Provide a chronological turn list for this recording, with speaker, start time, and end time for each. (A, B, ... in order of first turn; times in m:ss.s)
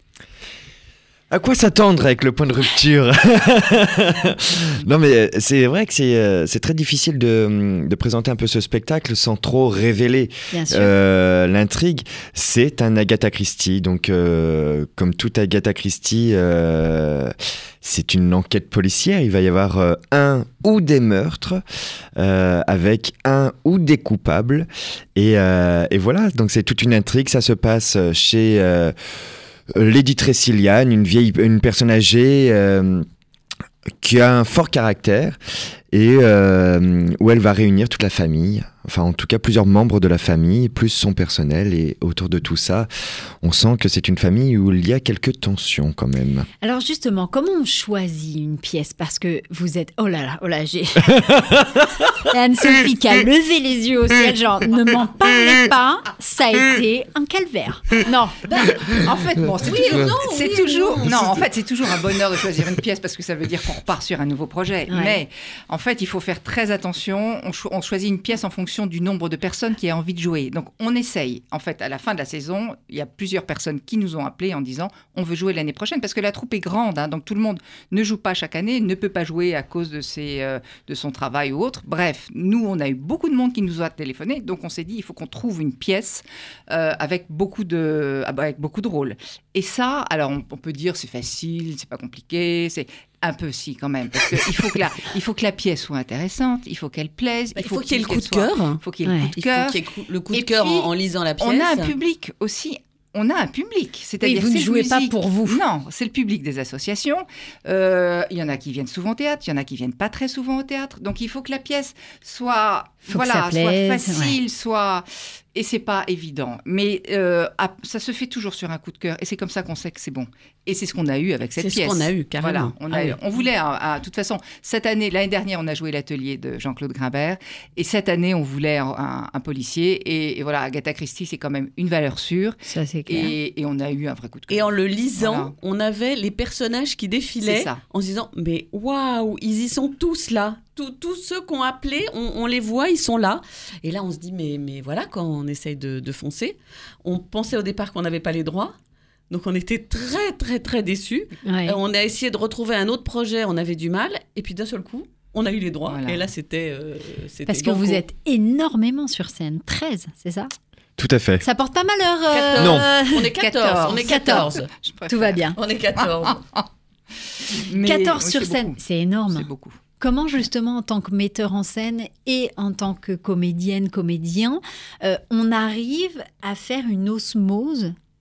0:01.3-0:21.6 A
0:10.5-0:10.9 B
0:22.2-0:28.9 A
0:29.7-0:33.1 A
0:34.0-0:35.4 A
0:35.9-0:42.9 A
0:43.4-0:46.5 A
0:46.6-0:58.4 B
0:58.5-0:59.0 C
0:58.5-1:39.8 D
0:59.6-1:01.5 C
1:04.9-1:05.2 B
1:37.6-1:38.8 C
1:39.0-1:39.3 B
1:39.4-1:42.0 C
1:40.3-2:15.5 D
1:44.2-1:45.6 B
1:53.1-1:54.4 B
2:01.6-2:03.2 C
2:12.7-2:13.3 B
2:14.5-2:28.8 C
2:17.4-2:17.8 D
2:29.3-2:38.0 C
2:31.4-2:31.8 B
2:35.9-2:36.3 D
2:37.5-2:40.5 B
2:41.0-2:41.4 A
2:41.4-2:43.3 B
2:42.3-2:44.7 C
2:42.6-2:42.9 A
2:43.4-2:45.4 D
2:44.0-2:44.5 B
2:45.1-2:45.6 B
2:45.5-2:46.4 C
2:46.0-2:46.7 D
2:47.5-2:48.8 D
2:47.8-2:49.5 B
2:49.3-2:49.8 D
2:50.0-2:58.0 B